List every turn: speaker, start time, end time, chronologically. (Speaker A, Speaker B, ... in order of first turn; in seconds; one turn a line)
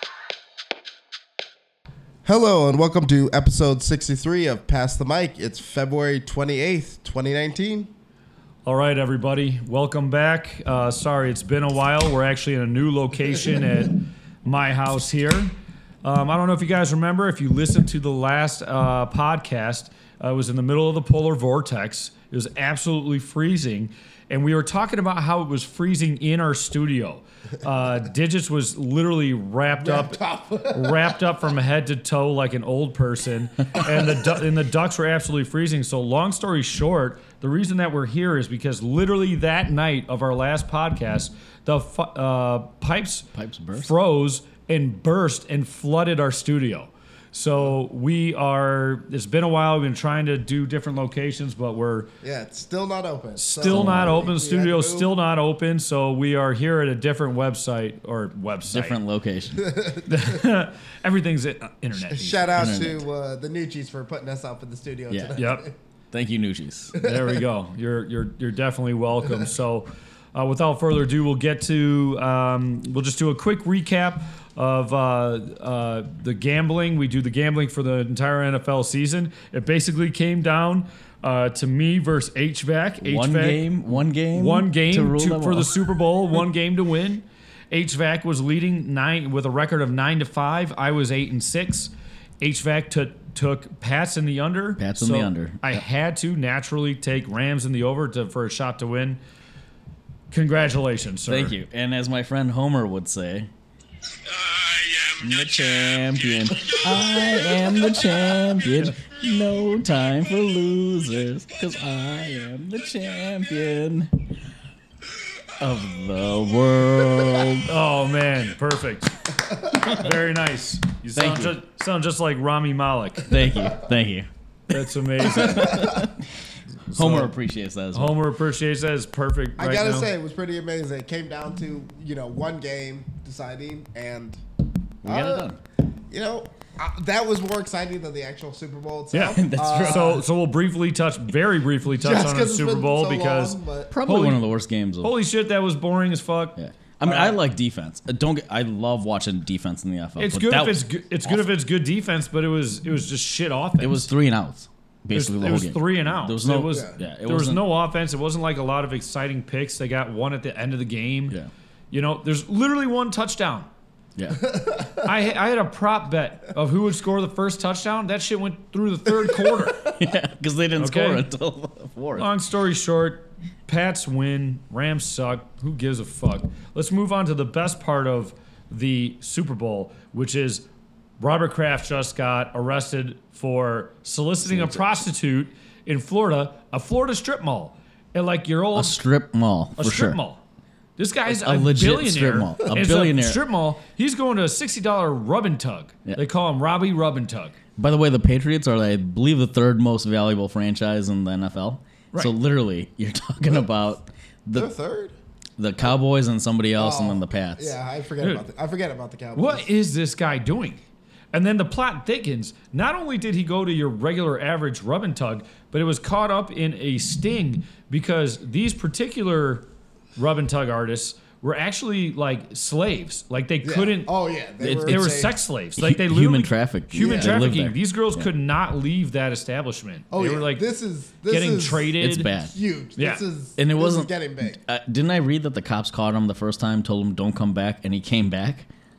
Speaker A: 2.2-7.9
Speaker B: 8.6-52.1
Speaker A: 29.8-31.1
Speaker C: 43.3-43.9
Speaker A: 52.2-55.1
Speaker B: 53.4-59.0
Speaker C: 53.6-54.2
Speaker C: 58.7-59.7
Speaker A: 59.5-60.4
Speaker B: 60.1-62.7
Speaker A: 62.0-65.7
Speaker C: 62.5-63.0
Speaker C: 65.1-65.4
Speaker B: 65.3-65.7
Speaker C: 66.1-66.9
Speaker B: 66.9-83.7
Speaker A: 67.0-67.4
Speaker C: 83.0-85.7
Speaker B: 84.3-99.2
Speaker C: 94.8-95.8
Speaker B: 100.3-101.5
Speaker C: 101.2-103.5
Speaker C: 105.2-114.3
Speaker C: 115.6-117.7
Speaker B: 117.7-119.1
Speaker B: 119.8-123.3
Speaker C: 121.1-121.5
Speaker C: 123.2-124.3
Speaker B: 124.7-126.0
Speaker C: 125.2-126.4
Speaker A: 125.3-126.1
Speaker B: 126.9-127.3
Speaker C: 126.9-128.2
Speaker B: 127.9-130.1
Speaker A: 129.6-134.4
Speaker C: 135.0-135.6
Speaker A: 135.0-135.5
Speaker A: 136.1-140.2
Speaker B: 139.1-144.5
Speaker C: 139.3-140.2
Speaker A: 142.0-143.9
Speaker C: 143.9-145.1
Speaker B: 145.0-147.4
Speaker C: 146.6-151.5
Speaker B: 150.2-154.1
Speaker C: 153.8-157.7
Speaker B: 155.1-161.3
Speaker B: 161.9-163.7
Speaker C: 164.2-164.4
Speaker A: 164.4-165.1
Speaker B: 165.0-169.9
Speaker A: 169.4-169.8
Speaker C: 169.8-172.3
Speaker B: 170.8-171.2
Speaker B: 172.2-180.6
Speaker B: 181.2-189.0
Speaker C: 184.4-185.0
Speaker C: 188.7-190.2
Speaker B: 189.8-190.4
Speaker B: 191.0-197.6
Speaker C: 191.2-193.4
Speaker C: 197.8-204.7
Speaker A: 204.5-205.2
Speaker C: 205.6-207.8
Speaker A: 206.8-209.7
Speaker B: 208.2-208.4
Speaker B: 209.3-224.1
Speaker A: 223.6-225.3
Speaker C: 224.6-228.3
Speaker B: 224.7-230.7
Speaker A: 227.0-227.4
Speaker A: 230.1-231.9
Speaker B: 231.3-232.3
Speaker C: 232.0-232.6
Speaker A: 232.5-234.6
Speaker B: 233.0-233.2
Speaker C: 233.6-238.7